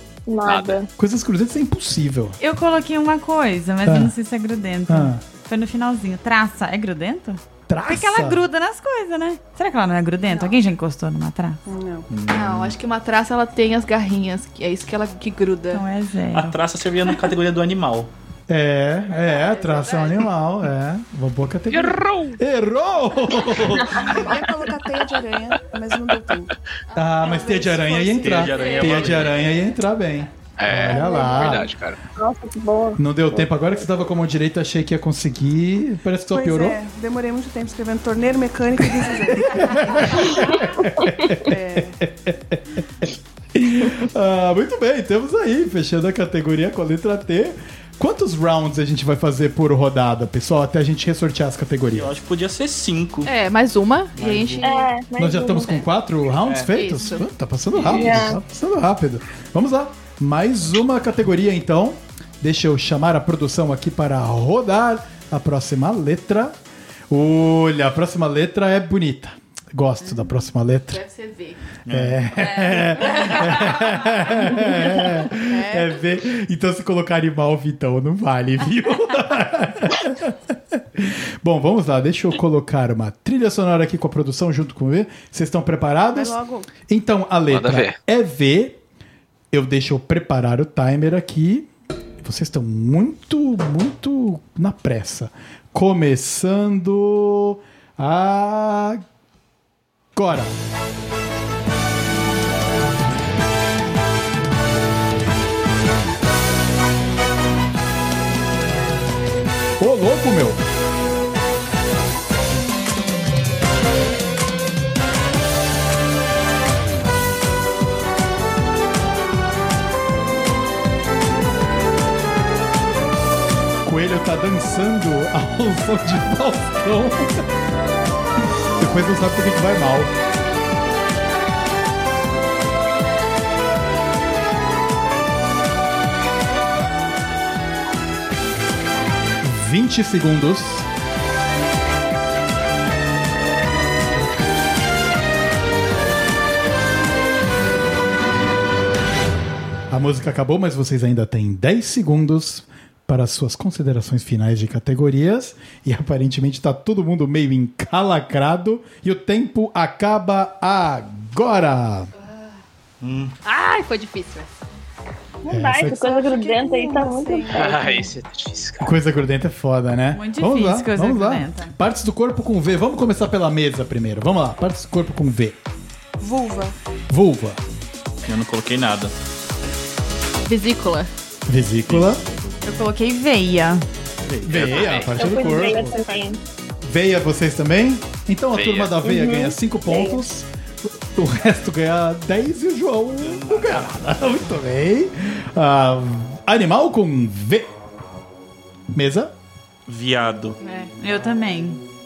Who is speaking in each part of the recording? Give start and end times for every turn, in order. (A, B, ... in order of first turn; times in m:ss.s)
0:00.3-0:00.9 A
0:00.4-0:00.8 B
0:01.0-0:02.4 C
0:02.4-0:11.6 D
0:03.8-0:04.1 C
0:04.9-0:05.2 C
0:07.7-0:08.4 C
0:10.3-0:10.6 E
0:11.6-0:12.1 F
0:12.1-0:12.8 G
0:12.3-0:15.8 E
0:15.7-0:16.6 D
0:16.3-0:18.1 G
0:18.5-0:24.2 C
0:19.1-0:20.3 E
0:21.7-0:22.4 B
0:23.9-0:26.5 F
0:26.9-0:27.7 E
0:27.0-0:31.7 C
0:27.2-0:29.0 F
0:28.2-0:29.6 G
0:28.5-0:28.9 E
0:30.6-0:32.0 B
0:30.9-0:31.6 A
0:32.2-0:33.9 A
0:33.0-0:36.8 C
0:36.3-0:40.6 F
0:39.4-0:42.6 C
0:41.5-0:42.0 F
0:43.6-0:52.2 C
0:51.9-0:53.3 G
0:53.2-0:54.9 E
0:54.2-0:54.7 G
0:54.6-0:55.8 A
0:55.2-1:06.6 C
0:56.6-0:57.3 E
0:57.8-0:58.4 A
1:07.1-1:11.0 C
1:10.9-1:11.6 E
1:11.9-1:12.2 G
1:11.9-1:28.8 C
1:12.5-1:13.8 E
1:15.4-1:16.0 F
1:26.1-1:26.7 F
1:27.5-1:28.0 B
1:29.5-1:31.7 C
1:32.2-1:39.0 C
1:40.2-1:40.6 C
1:49.8-1:50.6 C
2:03.8-2:07.4 C
2:08.8-2:10.1 C
2:19.4-2:20.9 C
2:29.9-2:42.1 C
2:43.0-2:43.4 G
2:43.4-2:44.5 E
2:45.4-2:48.0 A
2:45.5-2:46.1 C
2:46.0-2:48.0 F
2:47.5-2:48.9 B
2:48.8-2:55.6 C
2:50.1-2:51.7 D
2:56.2-2:56.8 F
2:57.1-2:57.6 C
2:58.2-2:59.1 G
3:00.4-3:01.1 E
3:01.5-3:02.2 C
3:01.9-3:02.6 G
3:02.6-3:03.8 D
3:04.3-3:05.1 G
3:04.4-3:06.0 C
3:04.6-3:05.2 B
3:05.1-3:06.4 A
3:06.8-3:17.7 C
3:08.5-3:09.0 B
3:09.0-3:10.2 A
3:13.2-3:14.2 G
3:18.9-3:19.3 C
3:19.9-3:20.6 G
3:20.6-3:20.9 E
3:21.0-3:21.8 D